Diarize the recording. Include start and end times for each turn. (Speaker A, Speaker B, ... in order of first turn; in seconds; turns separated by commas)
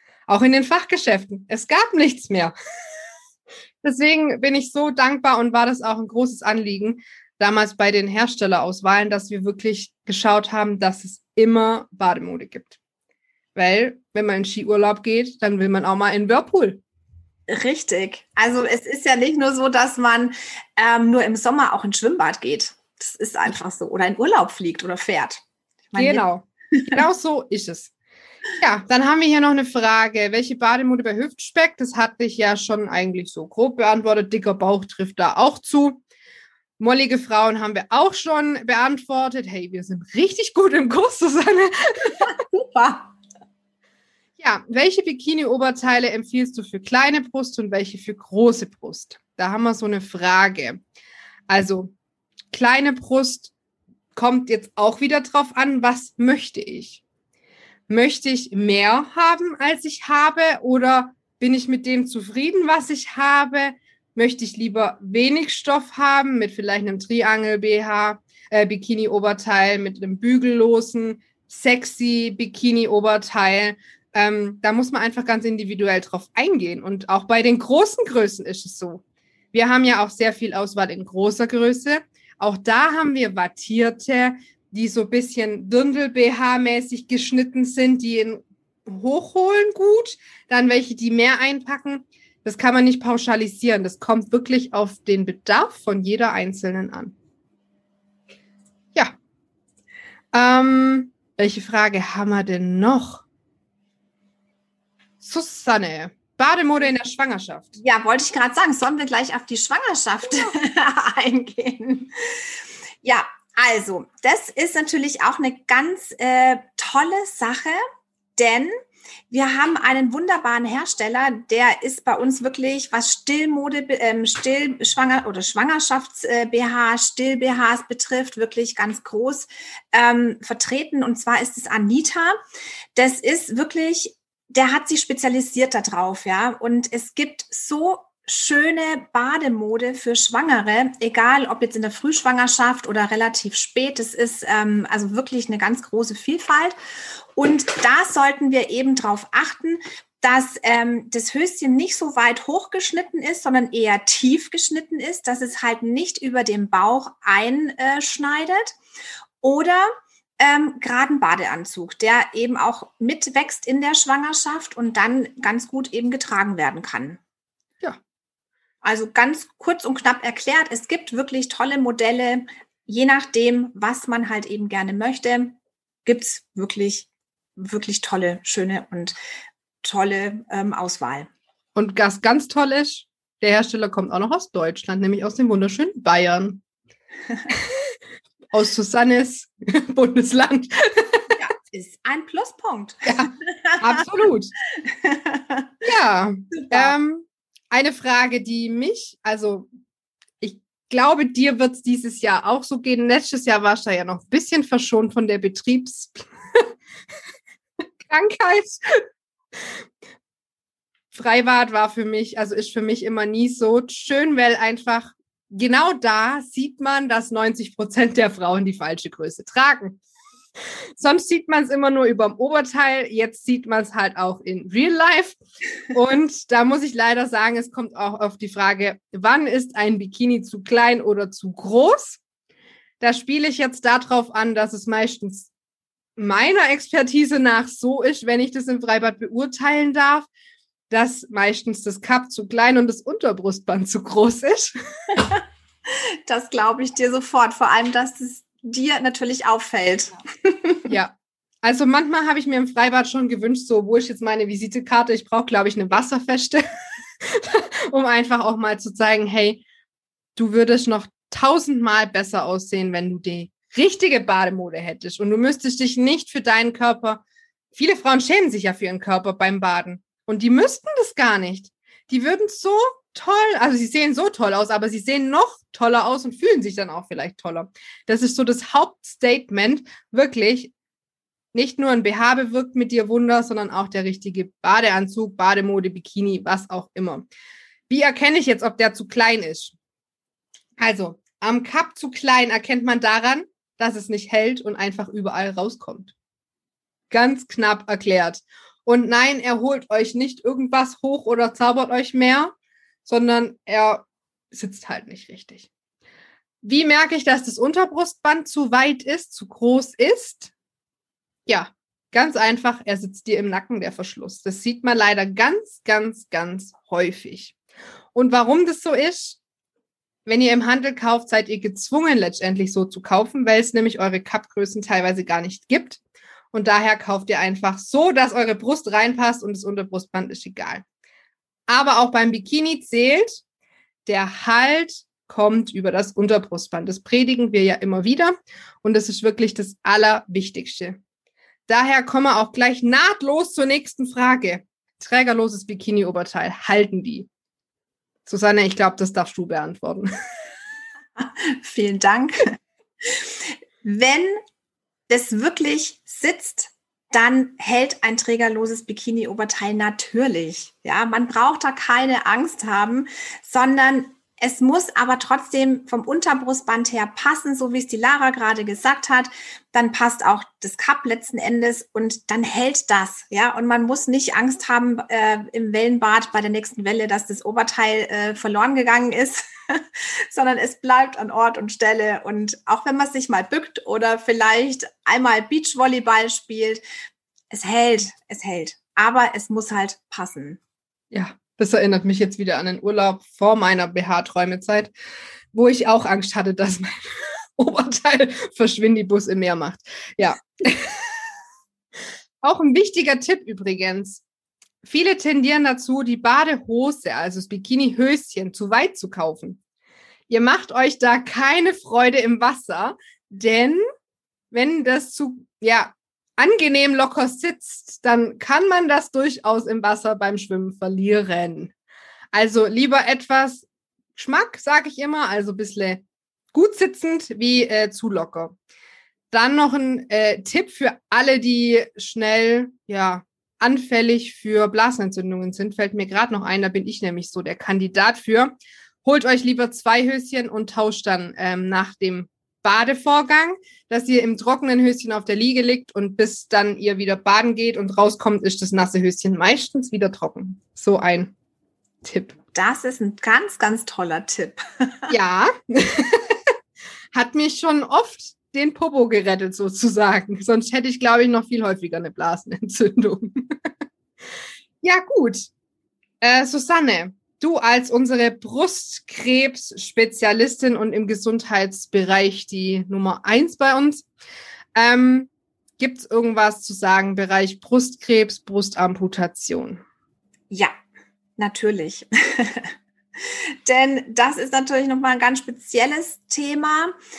Speaker A: 0.3-2.5, Speaker A: 3.8-12.8, Speaker A: 13.6-16.8, Speaker B: 17.5-26.2, Speaker A: 26.0-27.9, Speaker A: 28.6-36.0, Speaker A: 36.8-42.3, Speaker B: 42.3-43.1, Speaker A: 44.4-50.8, Speaker A: 51.5-51.9, Speaker A: 52.5-53.5, Speaker A: 54.2-57.0, Speaker A: 57.9-97.2, Speaker A: 100.3-103.2, Speaker A: 105.2-107.8, Speaker B: 107.8-112.4, Speaker B: 113.0-117.8, Speaker B: 118.4-118.7, Speaker B: 119.3-132.4, Speaker B: 132.9-146.8, Speaker B: 147.4-158.8, Speaker B: 159.4-167.2, Speaker B: 168.8-179.2, Speaker B: 179.8-181.3, Speaker A: 181.8-186.6, Speaker A: 188.5-191.3, Speaker B: 191.4-194.0, Speaker A: 193.1-194.5, Speaker B: 194.8-195.7, Speaker A: 195.8-199.7, Speaker B: 196.5-197.0, Speaker A: 200.4-206.6, Speaker A: 208.0-209.0, Speaker A: 211.1-220.0, Speaker A: 221.0-225.4, Speaker A: 225.9-232.2, Speaker A: 233.0-235.5, Speaker A: 236.2-240.3, Speaker A: 240.9-244.8, Speaker B: 245.9-250.8, Speaker A: 250.9-256.6, Speaker A: 257.3-259.6, Speaker A: 260.4-267.2, Speaker A: 267.7-280.7, Speaker A: 281.5-287.3, Speaker A: 287.9-289.8, Speaker A: 290.8-296.1, Speaker A: 297.1-302.5, Speaker A: 303.1-305.7, Speaker A: 306.6-310.5, Speaker A: 311.5-317.6, Speaker A: 318.1-319.4, Speaker A: 320.3-326.0, Speaker A: 326.5-330.8, Speaker A: 331.7-333.4, Speaker A: 334.1-341.0, Speaker A: 341.7-347.3, Speaker A: 348.3-350.1, Speaker B: 351.2-354.4, Speaker B: 355.1-386.8, Speaker B: 387.5-390.6, Speaker A: 391.1-394.9, Speaker A: 395.5-401.1, Speaker A: 402.4-404.2, Speaker A: 404.8-409.6, Speaker A: 410.3-413.8, Speaker A: 414.5-421.7, Speaker A: 422.3-428.6, Speaker A: 429.3-451.3, Speaker A: 452.0-452.4, Speaker B: 452.5-455.1, Speaker A: 455.1-456.4, Speaker A: 457.1-463.5, Speaker A: 464.8-465.5, Speaker A: 466.2-474.1, Speaker A: 474.8-479.8, Speaker B: 481.4-486.9